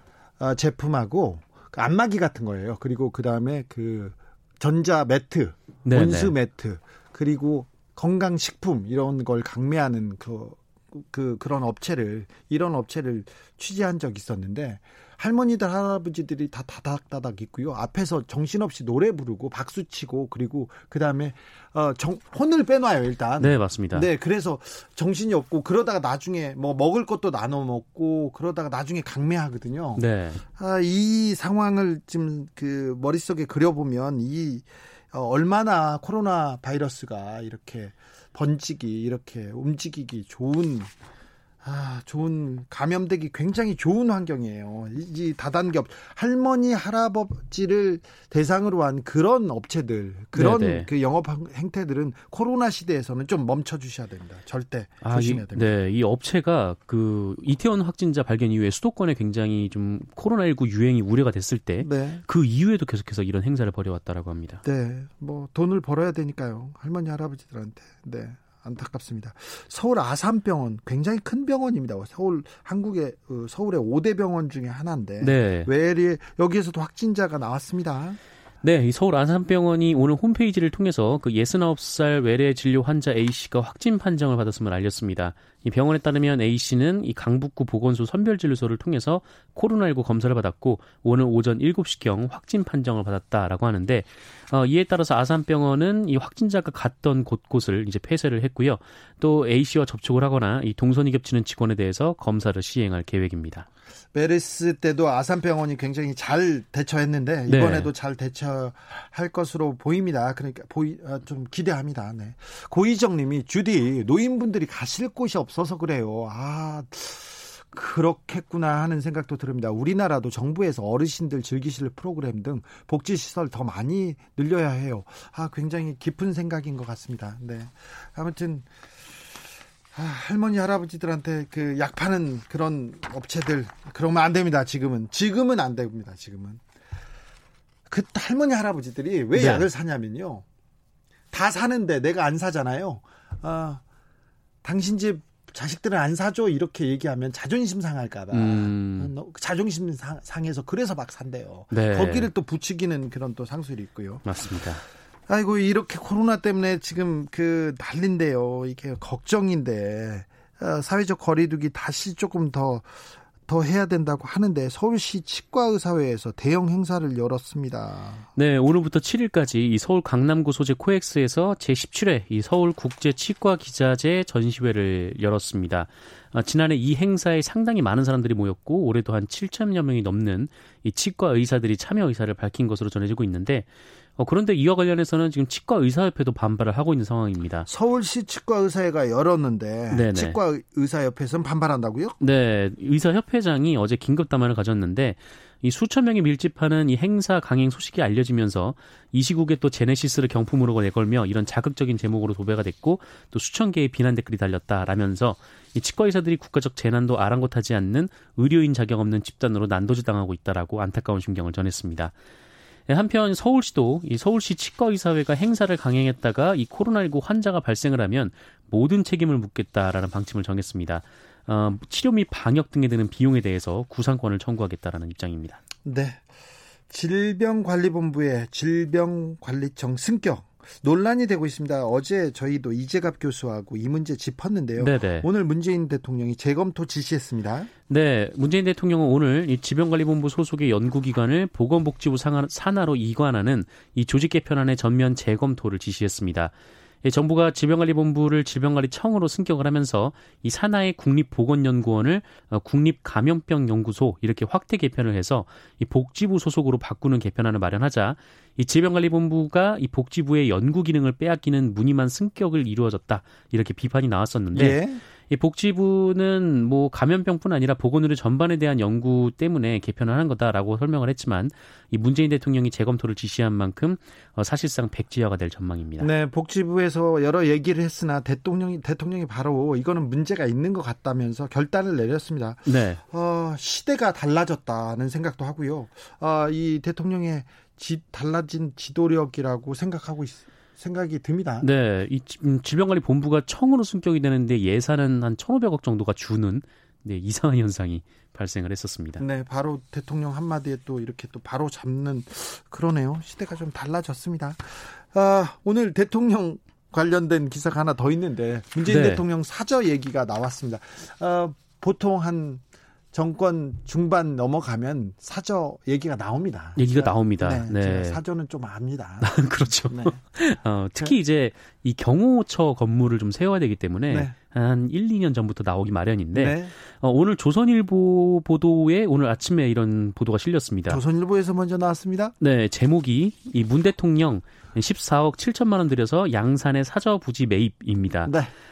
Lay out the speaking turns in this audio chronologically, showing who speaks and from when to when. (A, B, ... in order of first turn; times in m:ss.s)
0:00.4-0:40.9 A
0:05.8-0:06.3 B
0:23.4-0:24.1 B
0:30.0-0:30.4 B
0:41.6-0:55.8 A
0:50.3-0:50.9 B
0:55.0-1:04.6 B
1:01.8-1:02.2 A
1:04.6-1:18.2 A
1:15.2-1:15.7 B
1:18.6-1:43.7 B
1:44.1-2:08.7 A
1:47.5-1:47.9 B
2:09.9-2:16.6 A
2:17.9-2:20.4 A
2:19.3-2:19.7 B
2:21.3-2:23.8 A
2:24.6-2:34.3 A
2:28.3-2:29.1 B
2:31.7-2:32.3 B
2:34.2-2:34.8 B
2:35.3-2:48.3 A
2:48.4-3:07.7 B
3:07.7-3:12.2 A
3:09.9-3:10.4 B
3:12.2-3:32.1 B
3:32.9-3:45.6 B
3:45.8-3:46.2 A
3:46.9-3:57.7 A
3:54.8-3:55.3 B
3:57.9-4:36.1 B
4:24.5-4:25.0 A
4:36.0-4:51.7 A
4:42.7-4:43.0 B
4:51.6-4:59.2 B
4:59.2-5:12.6 A
5:08.8-5:09.2 B
5:13.1-5:19.3 A
5:16.8-5:18.2 B
5:19.2-5:31.0 B
5:19.9-5:20.2 A
5:24.1-5:24.4 A
5:26.3-5:26.7 A
5:30.9-5:32.3 A
5:32.4-5:38.4 B
5:38.3-5:38.5 A